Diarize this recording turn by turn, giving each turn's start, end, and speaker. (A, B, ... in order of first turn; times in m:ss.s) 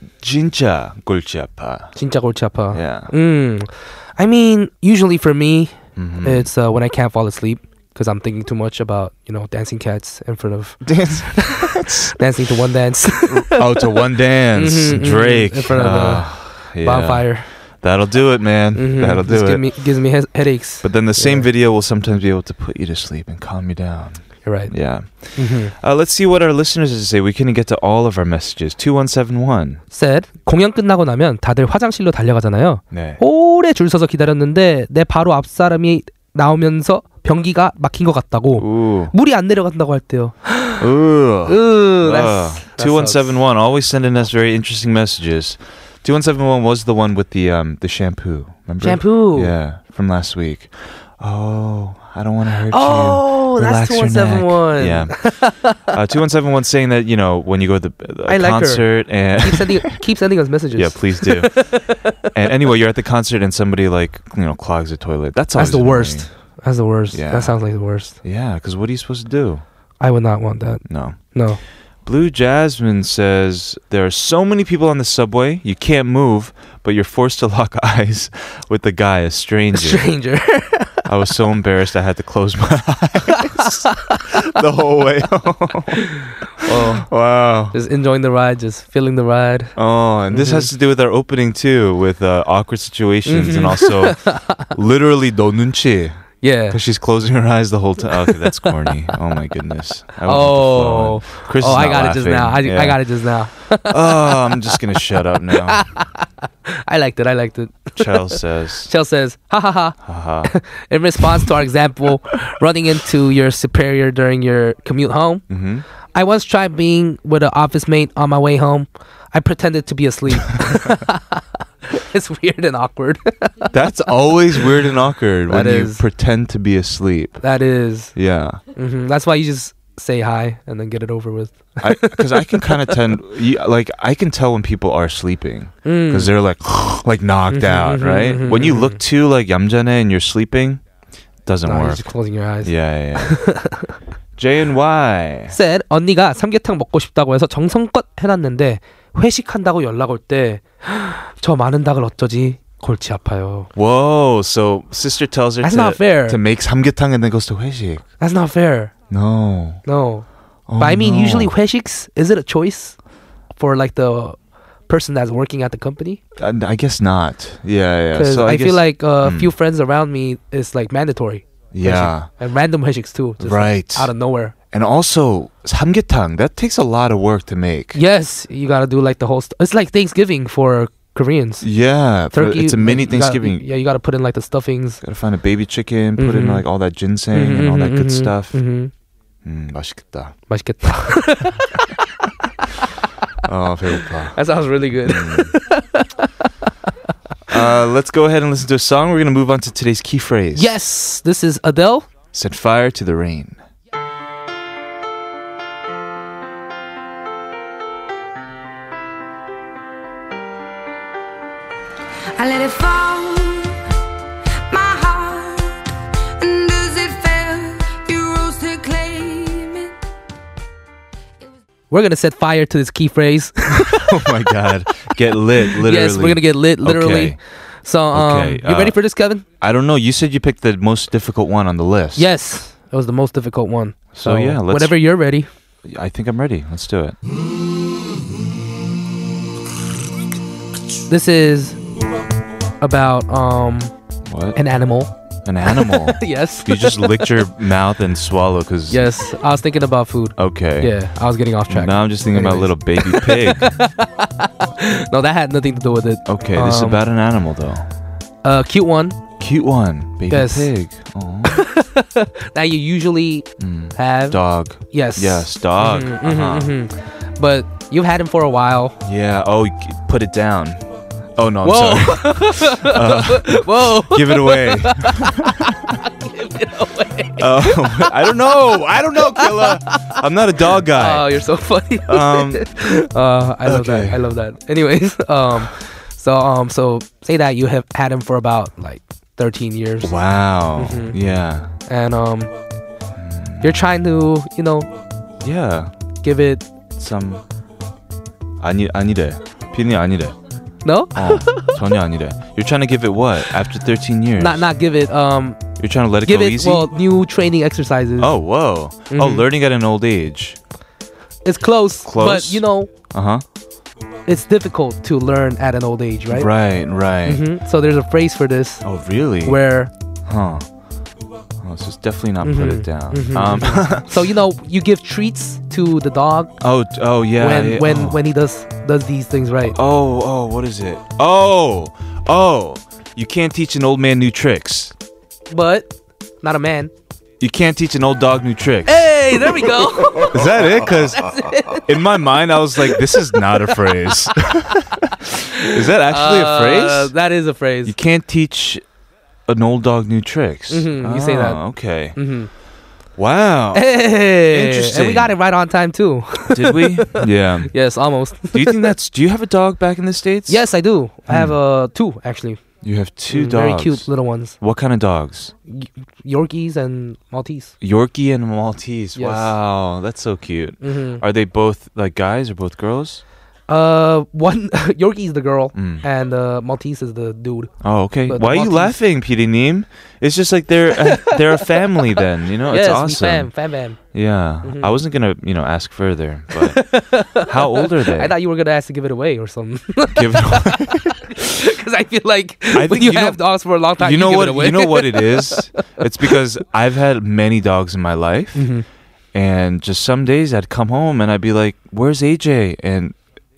0:00.2-0:02.0 A
0:02.0-0:13.8 B
0:02.7-0:03.1 A
0:06.0-0:06.5 A
0:10.8-0:12.1 A
0:13.3-0:19.6 A
0:14.5-0:17.5 B
0:18.7-0:21.5 B
0:20.8-0:29.8 A
0:24.4-0:25.7 B
0:29.9-0:40.8 B
0:32.9-0:33.2 A
0:38.6-0:39.1 A
0:40.8-1:00.0 A
0:41.5-0:43.3 B
0:48.8-0:49.5 B
0:52.7-0:55.8 B
0:58.3-1:02.1 B
1:00.7-1:06.3 A
1:05.6-1:08.2 B
1:07.1-1:09.6 A
1:10.0-1:11.6 B
1:10.8-1:11.4 A
1:12.0-1:20.1 A
1:19.7-1:21.0 B
1:21.0-1:26.1 A
1:23.5-1:24.2 B
1:26.6-1:27.7 A
1:26.6-1:27.1 B
1:27.7-1:29.7 B
1:29.8-1:43.0 A
1:30.3-1:30.7 B
1:33.3-1:34.6 B
1:36.4-1:36.8 B
1:40.2-1:44.3 B
1:43.6-1:45.9 A
1:45.7-1:55.4 B
1:48.0-1:48.9 A
1:50.0-1:50.5 A
1:55.5-1:55.8 A
1:56.1-2:03.7 B
2:03.7-2:07.4 A
2:05.5-2:06.0 B
2:07.4-2:08.1 B
2:08.1-2:08.6 A
2:08.8-2:13.0 B
2:11.8-2:20.8 A
2:15.8-2:16.3 B
2:17.5-2:19.0 B
2:21.4-2:23.5 A
2:21.6-2:23.9 B
2:24.4-2:25.5 A
2:25.5-2:33.7 B
2:33.7-2:38.0 A
2:35.6-2:36.4 B
2:38.2-2:38.9 B
2:39.1-2:39.8 A
2:39.8-2:40.3 B
2:40.7-2:41.5 A
2:40.8-2:43.0 B
2:43.6-2:44.4 B
2:44.9-2:46.2 B
2:46.4-2:49.5 A
2:48.1-2:54.5 B
2:51.7-2:52.3 A
2:53.4-2:54.1 A
2:54.7-2:58.0 A
2:57.9-3:01.7 B
3:01.6-3:03.6 A
3:02.3-3:05.0 B
3:05.0-3:08.6 A
3:06.2-3:06.6 B
3:07.3-3:08.9 B
3:09.4-3:10.3 A
3:10.5-3:11.9 B
3:13.4-3:15.5 A
3:14.3-3:16.3 B
3:17.5-3:20.7 A
3:20.5-3:22.1 B
3:22.3-3:23.6 A
3:32.3-3:33.8 C
3:34.7-3:35.8 C
3:36.4-3:39.9 C
3:41.9-3:44.1 B
3:43.9-3:47.4 A
3:45.8-3:49.4 B
3:48.1-3:49.0 A
3:49.6-3:52.3 A
3:52.2-3:55.5 B
3:54.1-3:55.0 A
3:55.8-3:57.2 A
4:01.1-4:01.8 B
4:02.8-4:03.9 B
4:04.3-4:04.6 A
4:04.5-4:05.1 B
4:05.4-4:09.1 A
4:05.7-4:07.3 B
4:08.9-4:17.0 B
4:10.4-4:11.0 A
4:11.7-4:13.8 A
4:16.3-4:17.8 A
4:18.4-4:19.2 B
4:19.4-4:21.6 A
4:20.3-4:20.7 B
4:21.5-4:29.0 B
4:23.6-4:26.7 A
4:29.0-4:30.8 A
4:31.4-4:35.7 A
4:31.6-4:38.3 B
4:37.4-4:41.4 A
4:39.3-4:40.2 B
4:40.9-4:50.1 B
4:42.0-4:42.7 A
4:43.6-4:44.2 A
4:50.0-4:51.7 A
4:50.8-4:51.2 B
4:51.9-4:52.5 B
4:53.2-4:53.8 A
4:53.6-4:54.9 B
4:55.4-4:55.9 A
4:56.2-4:56.7 B
4:57.0-4:57.4 A
4:58.6-5:00.4 A
5:00.8-5:01.8 B
5:01.1-5:04.7 A
5:04.4-5:05.6 B
5:05.8-5:06.9 A
5:06.2-5:08.3 B
5:08.2-5:10.6 A
5:09.1-5:09.4 B
5:11.4-5:12.9 B
5:12.0-5:13.4 A
5:14.3-5:16.5 B
5:16.3-5:17.4 A
5:17.2-5:18.9 B
5:18.8-5:19.6 A
5:19.4-5:19.9 B
5:20.3-5:20.6 A
5:21.6-5:24.1 A
5:22.4-5:26.5 B
5:26.6-5:28.2 A
5:27.4-5:29.8 B
5:29.7-5:34.9 A
5:35.5-5:36.9 B
5:37.4-5:39.5 A
5:38.8-5:41.9 B
5:40.2-5:47.1 A
5:42.9-5:43.2 B
5:45.6-5:47.9 B
5:47.8-5:48.8 A
5:49.5-5:52.2 A
5:50.7-5:51.6 B
5:52.1-5:52.5 B
5:53.2-5:55.3 A
5:53.7-5:58.8 B
5:56.5-5:57.7 A
5:58.5-6:00.6 A
6:00.5-6:02.6 B
6:01.3-6:01.5 A
6:02.8-6:05.5 A
6:03.3-6:04.6 B
6:05.7-6:07.7 B
6:07.8-6:13.2 A
6:09.2-6:09.5 B
6:10.8-6:11.2 B
6:13.7-6:17.7 B
6:15.7-6:16.0 A
6:17.8-6:23.5 A
6:18.3-6:19.0 B
6:21.0-6:21.4 B
6:22.7-6:24.0 B
6:24.1-6:28.3 A
6:24.6-6:24.9 B
6:26.5-6:35.6 B
6:30.1-6:31.1 A
6:32.7-6:38.7 A
6:38.5-6:38.8 B
6:39.3-6:43.2 A